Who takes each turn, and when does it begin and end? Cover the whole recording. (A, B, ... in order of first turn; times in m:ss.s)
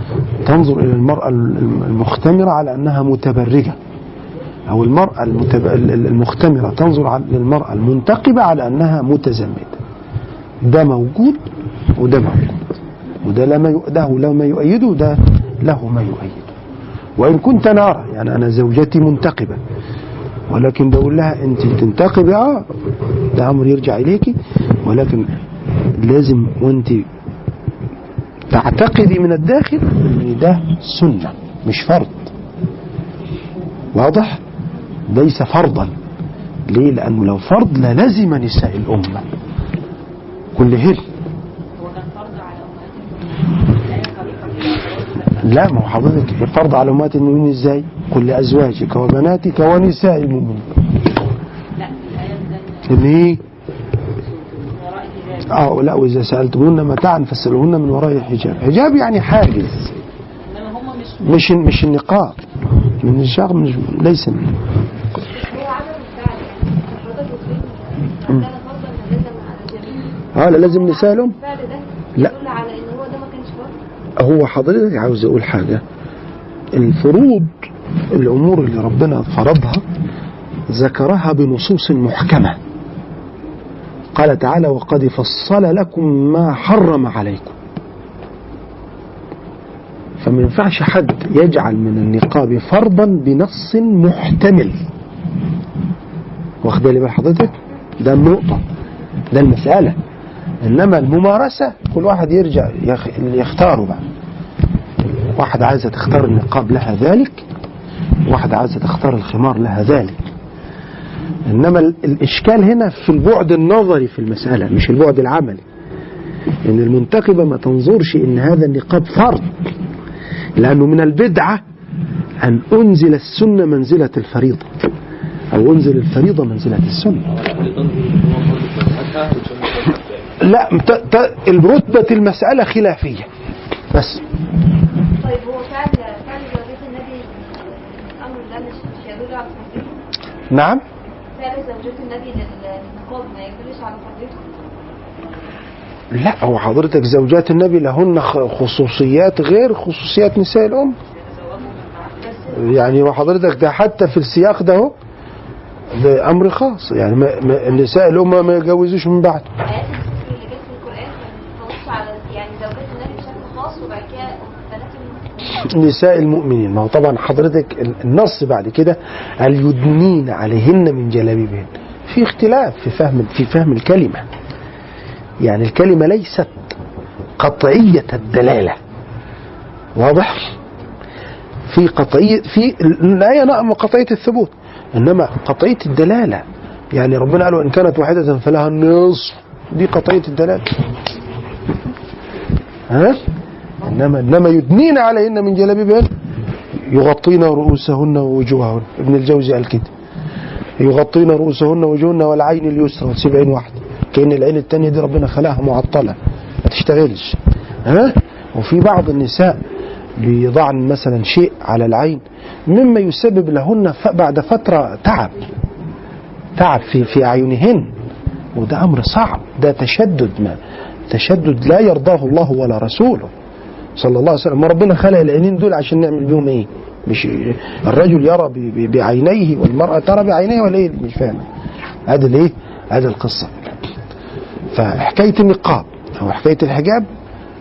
0:00.4-0:03.8 A
0:04.7-0:09.8 A
0:10.6-0:11.4 A
0:12.0-0:12.7 A
0:13.2-0:16.5 A
0:17.2-0:19.6 A
0:20.5-0:22.6 A
0:23.3-0:25.3 A
0:26.0-0:27.1 A
0:28.5-0:32.3 A
0:33.9-0:34.4 A
0:35.1-0:35.9 A
0:36.7-0:39.2 A
0:40.5-0:41.0 A
0:41.8-0:45.6 B
0:45.4-0:50.6 A
0:51.8-0:53.0 B
0:52.9-0:53.4 A
0:54.2-0:55.6 B
0:55.5-0:59.9 A
1:00.4-1:01.4 B
1:01.2-1:02.4 A
1:03.0-1:04.6 A
1:05.3-1:13.7 C
1:10.3-1:11.4 A
1:14.2-1:15.8 A
1:16.7-1:17.5 A
1:18.1-1:19.8 A
1:20.7-1:22.6 A
1:24.1-1:27.5 A
1:30.2-1:34.8 A
1:36.6-1:38.6 A
1:39.3-1:40.0 A
1:40.6-1:44.0 A
1:45.4-1:47.4 A
1:48.2-1:50.2 A
1:51.5-1:55.6 A
1:56.6-1:59.5 A
2:00.6-2:01.6 A
2:02.4-2:04.7 A
2:05.5-2:07.3 A
2:07.3-2:10.4 D
2:10.4-2:13.3 A
2:13.9-2:14.2 A
2:15.2-2:20.0 C
2:20.5-2:20.8 A
2:21.4-2:24.4 C
2:26.1-2:31.0 A
2:31.1-2:32.6 B
2:32.2-2:32.5 C
2:32.5-2:34.9 A
2:35.9-2:39.5 A
2:39.6-2:45.4 C
2:45.6-2:54.2 A
2:55.4-2:56.6 A
2:57.4-2:58.8 A
3:00.0-3:00.5 A
3:01.7-3:10.7 A
3:12.9-3:13.2 A
3:13.8-3:16.1 A
3:16.9-3:19.9 A
3:20.8-3:29.6 A
3:30.2-3:35.4 A
3:36.6-3:37.9 A
3:38.5-3:40.6 A
3:41.1-3:43.3 A
3:44.0-3:51.4 A
3:52.1-3:53.8 A
3:54.7-3:57.1 A